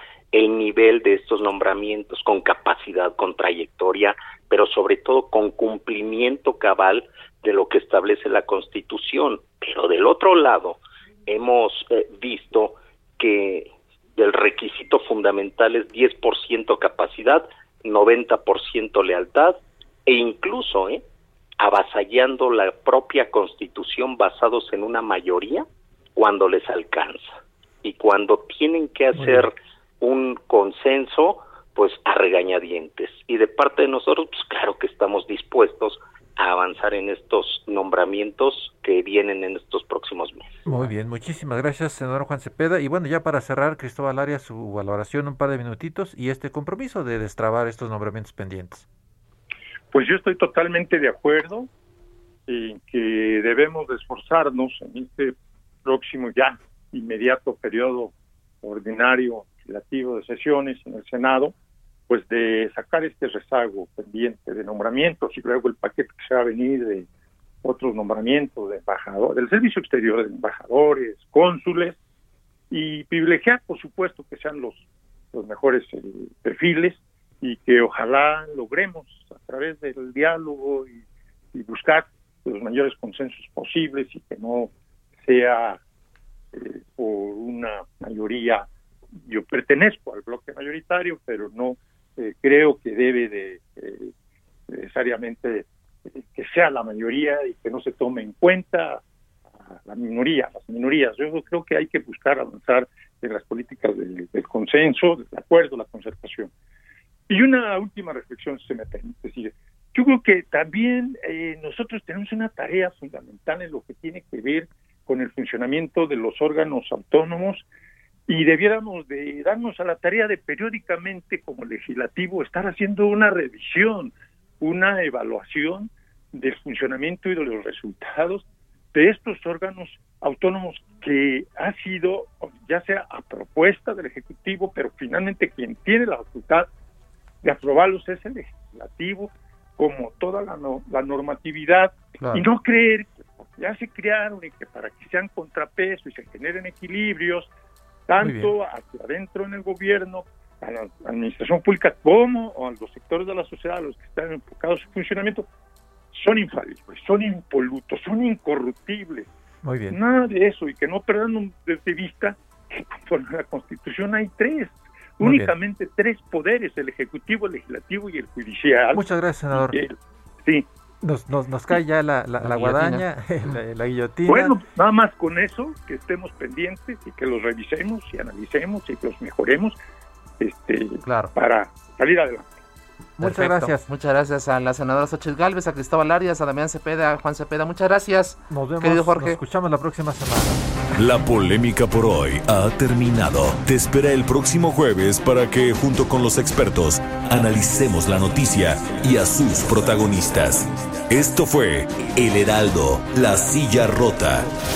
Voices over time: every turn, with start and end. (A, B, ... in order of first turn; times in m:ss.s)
0:00.3-0:21.0 A
0:21.6-0:40.7 A
0:29.2-0:29.4 B
0:40.7-0:48.9 B
0:49.9-0:51.7 C
0:52.5-1:01.5 C
1:02.1-1:07.1 C
1:07.6-1:12.0 C
1:12.7-1:14.8 C
1:15.3-1:21.0 C
1:21.5-1:24.7 C
1:25.2-1:25.8 C
1:26.5-1:28.7 C
1:29.3-1:34.1 C
1:34.7-1:39.0 C
1:39.7-1:46.5 C
1:47.3-1:57.6 C
1:58.3-2:16.7 C
2:17.4-2:27.5 C
2:28.1-2:35.5 C
2:28.2-2:28.5 B
2:36.1-2:39.3 C
2:39.6-2:40.0 B
2:39.9-2:50.7 C
2:45.2-2:45.5 B
2:48.9-2:49.8 B
2:51.0-2:54.6 B
2:52.4-2:53.5 D
2:54.3-2:59.8 C
3:00.4-3:02.5 C
3:01.0-3:01.3 D
3:03.2-3:03.9 B
3:03.2-3:09.4 D
3:08.5-3:10.6 B
3:11.0-3:24.5 E